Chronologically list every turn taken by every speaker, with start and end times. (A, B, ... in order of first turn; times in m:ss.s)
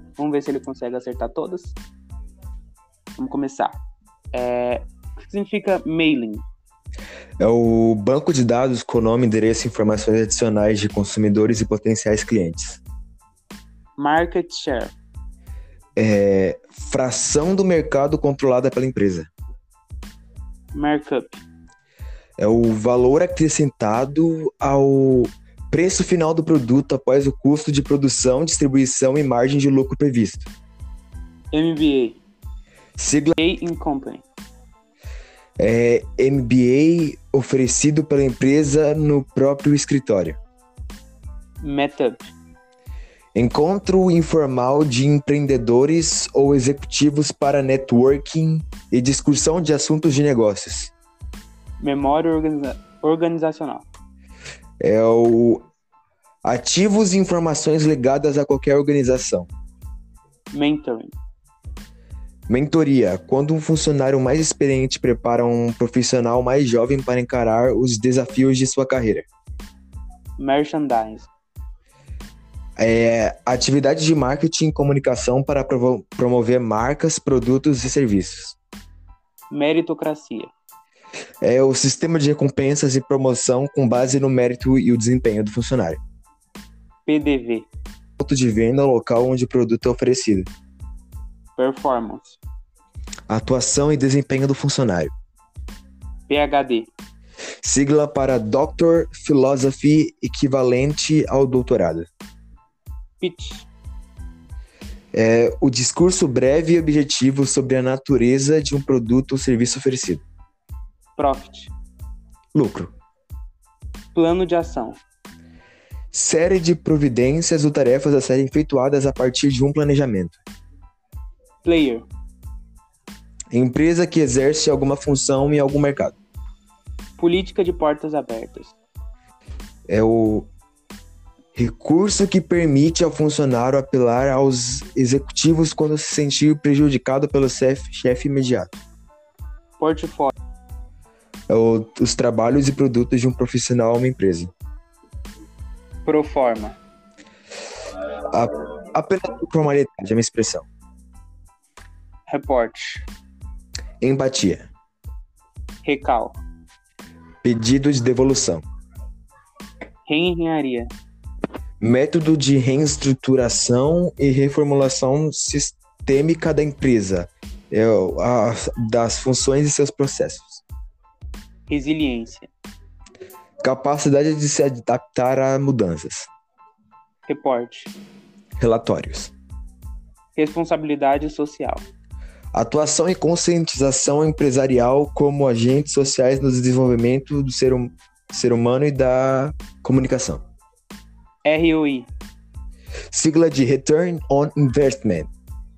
0:00.2-0:01.8 A
0:03.2-0:03.8 A
0:04.3-0:06.4 A
0:07.4-0:12.8 B
0:14.0-0:14.9 A
0:16.0-0:19.3 B
0:20.7-0:21.4 A
0:22.4-0:30.5 B
0:31.5-0:32.2 A
0:33.0-0:33.4 B
0:33.4-0:34.2 A
0:35.6-0:40.4 B
0:41.6-0:42.3 A
0:43.3-0:50.9 B
0:51.8-0:53.8 A
0:54.8-0:55.6 B
0:56.4-0:59.5 B
1:00.5-1:01.1 A
1:02.5-1:09.3 B
1:10.4-1:11.3 A
1:12.8-1:18.6 B
1:19.5-1:20.5 A
1:21.4-1:26.0 B
1:27.0-1:27.7 A
1:28.2-1:30.5 B
1:31.6-1:32.4 A
1:33.3-1:35.1 B
1:36.3-1:36.9 A
1:37.6-1:42.1 B
1:43.2-1:43.7 A
1:45.1-1:50.2 B
1:51.2-1:51.7 A
1:52.5-1:52.9 B
1:54.1-1:55.0 A
1:56.1-2:00.4 B
2:01.6-2:02.0 A
2:03.5-2:06.1 B
2:07.2-2:08.8 A
2:09.9-2:10.5 B
2:11.6-2:18.8 B
2:19.8-2:20.3 A
2:21.5-2:24.5 B
2:26.0-2:26.8 A
2:28.3-2:30.7 B
2:32.3-2:33.0 A
2:34.0-2:34.7 B
2:35.8-2:36.4 A
2:37.4-2:38.6 B
2:40.0-2:40.9 A
2:41.8-2:50.6 B
2:51.7-2:52.5 A
2:53.6-2:56.3 B
2:57.3-2:57.9 A
2:58.6-2:59.3 B
3:00.4-3:01.8 A
3:02.5-3:10.4 B
3:11.4-3:12.1 A
3:13.1-3:15.3 B